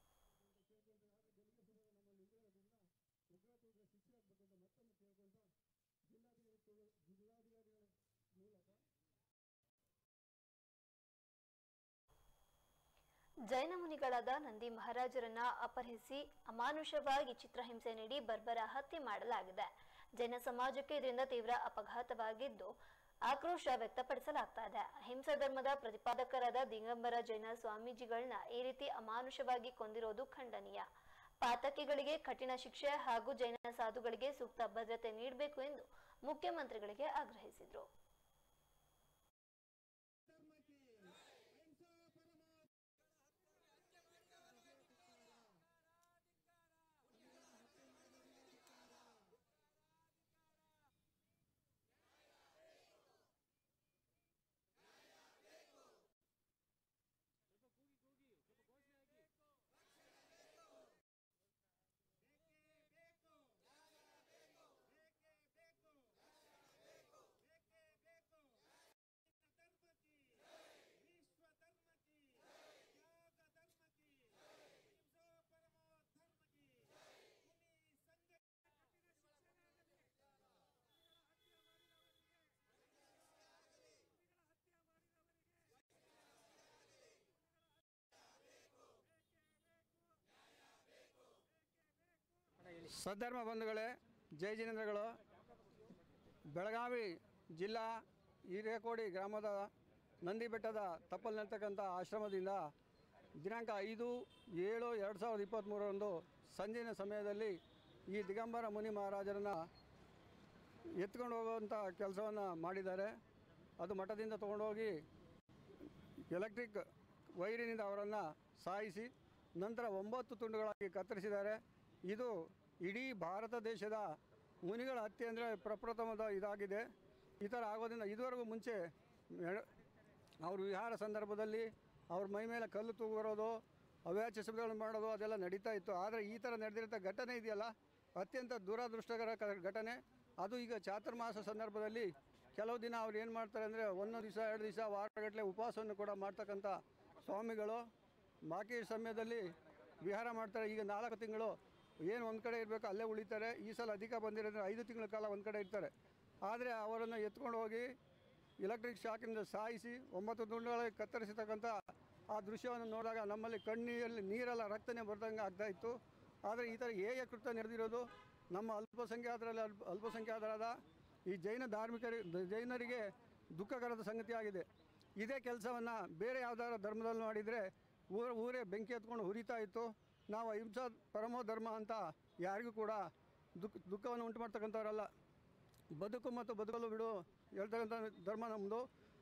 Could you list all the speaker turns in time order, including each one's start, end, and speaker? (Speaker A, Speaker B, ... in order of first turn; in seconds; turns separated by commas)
Speaker A: 0.7-2.8, Speaker B: 0.7-1.4, Speaker B: 2.0-2.3, Speaker B: 3.4-5.3, Speaker A: 3.5-5.4, Speaker B: 6.2-6.4, Speaker A: 6.2-7.9, Speaker B: 7.1-7.8, Speaker A: 8.5-8.8, Speaker C: 13.5-22.8, Speaker C: 23.3-30.9, Speaker C: 31.4-37.9, Speaker A: 40.3-42.6, Speaker A: 44.6-45.5, Speaker A: 47.2-48.2, Speaker A: 48.7-49.1, Speaker B: 92.8-95.2, Speaker B: 96.5-99.7, Speaker B: 100.2-102.6, Speaker B: 103.4-109.7, Speaker B: 111.0-113.2, Speaker B: 113.8-115.0, Speaker B: 116.3-116.8, Speaker B: 117.4-126.9, Speaker B: 127.4-129.7, Speaker B: 130.4-147.8, Speaker B: 148.5-155.9, Speaker B: 156.5-157.9, Speaker B: 158.6-165.9, Speaker B: 166.5-174.7, Speaker B: 175.2-183.0, Speaker B: 183.6-185.1, Speaker B: 186.0-188.8